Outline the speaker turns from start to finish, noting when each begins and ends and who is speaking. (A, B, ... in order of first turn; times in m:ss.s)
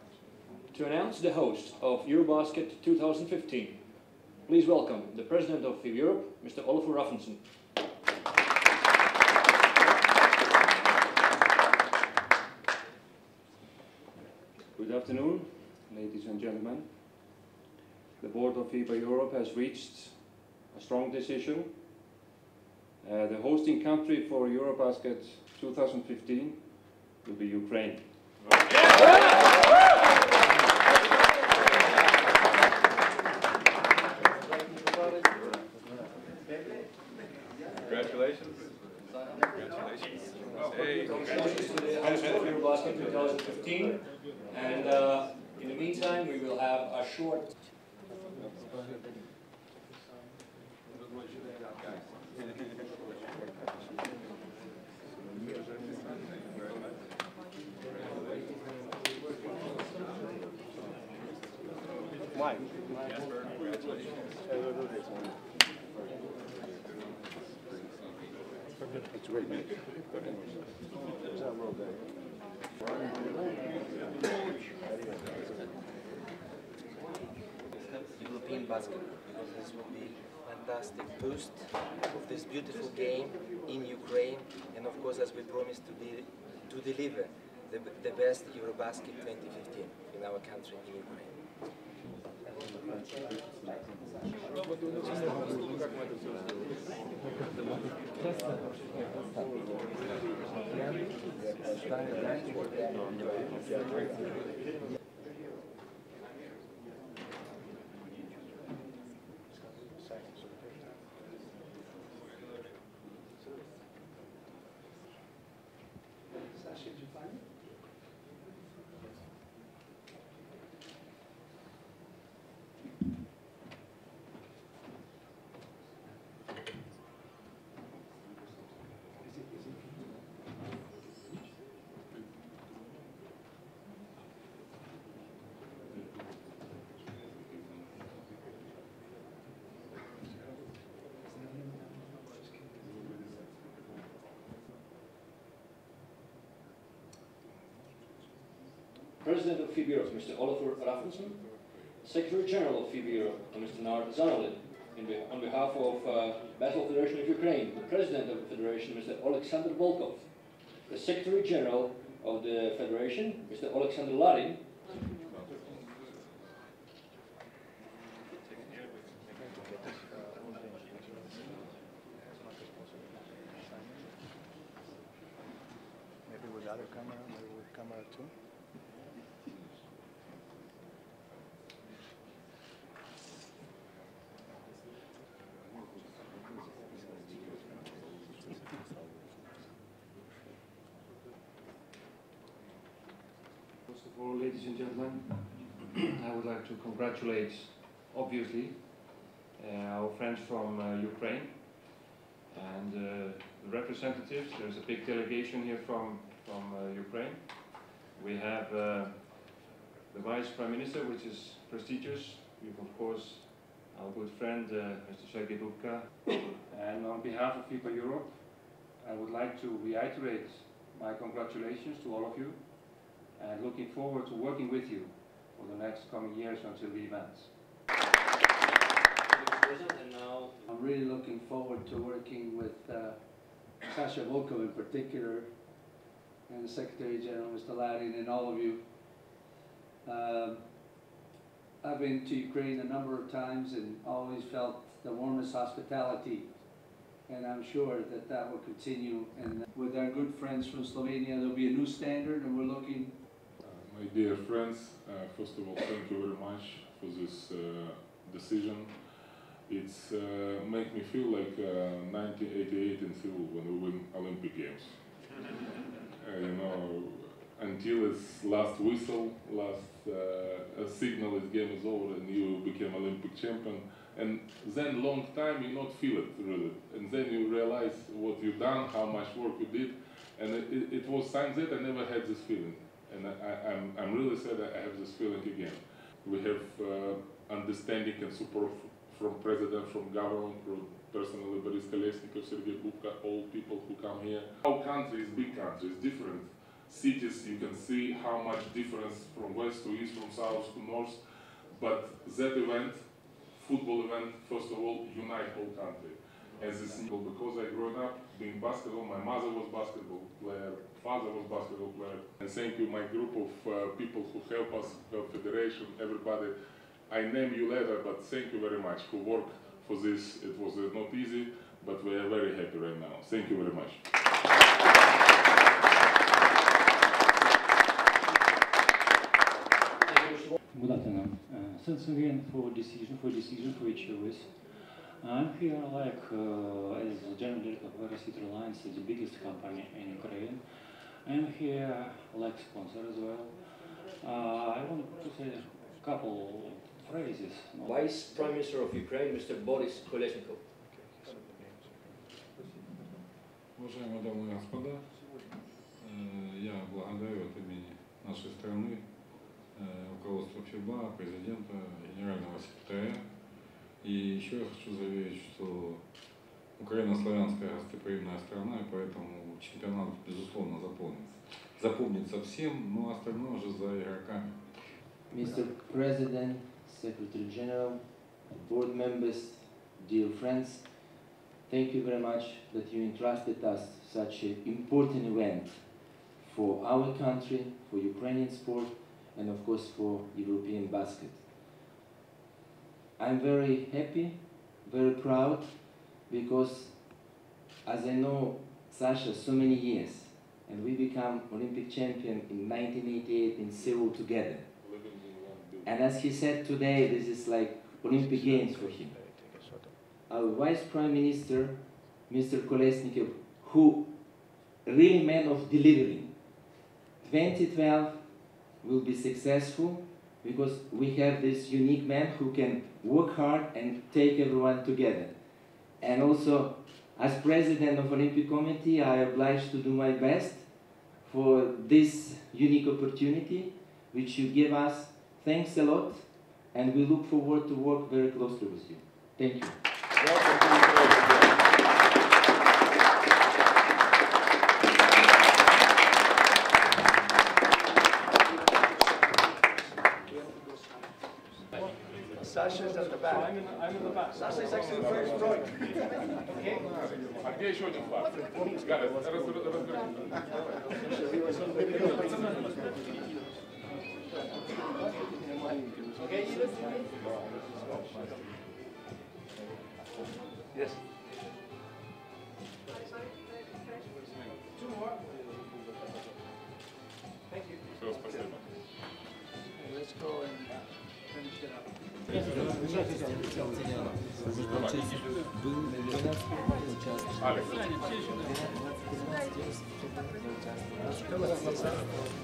0:00.7-0:07.4 A
0:14.7-0:16.9 B
0:18.2-0:21.8 B
0:23.0-0:28.2 B
0:41.0-0:47.5 A
1:18.1-1:31.4 C
1:40.7-1:41.0 C
1:42.0-1:42.4 C
1:49.9-1:50.9 D
2:29.2-2:44.7 A
2:49.4-2:51.5 D
2:52.4-2:53.1 D
2:53.6-2:54.1 D
2:56.3-2:58.3 D
3:13.9-3:47.6 B
3:49.3-3:50.6 A
3:50.7-3:55.8 E
3:56.5-3:59.2 E
4:00.0-4:01.0 E
4:01.8-4:13.2 E
4:13.6-4:19.0 F
4:19.7-4:25.0 F
4:26.2-5:16.5 F
5:17.1-5:24.0 F
5:30.0-5:30.6 A
5:30.7-5:48.1 G
5:47.8-5:50.6 A
5:50.8-5:52.1 D
5:53.7-5:55.2 H
5:56.0-6:03.3 H
6:04.0-6:06.1 H
6:06.8-6:14.8 H
6:15.3-6:21.0 C
6:21.7-6:31.5 C
6:33.2-6:37.2 C
6:37.8-6:44.7 C
6:44.8-6:45.9 F
6:45.8-6:49.2 C
6:48.0-6:49.9 D
6:50.3-6:54.3 C
6:54.8-6:56.4 C
6:57.2-6:58.2 C
6:58.8-7:05.4 C
7:05.9-7:19.8 C
7:20.2-7:21.3 F
7:32.4-7:33.5 D
7:34.4-7:35.7 D
7:37.4-7:40.3 F
7:41.7-7:42.0 D
7:47.8-7:48.3 D
7:58.0-7:58.7 F
7:59.8-8:00.5 E
8:02.6-8:07.4 C
8:07.4-8:07.9 F
8:08.4-8:09.9 C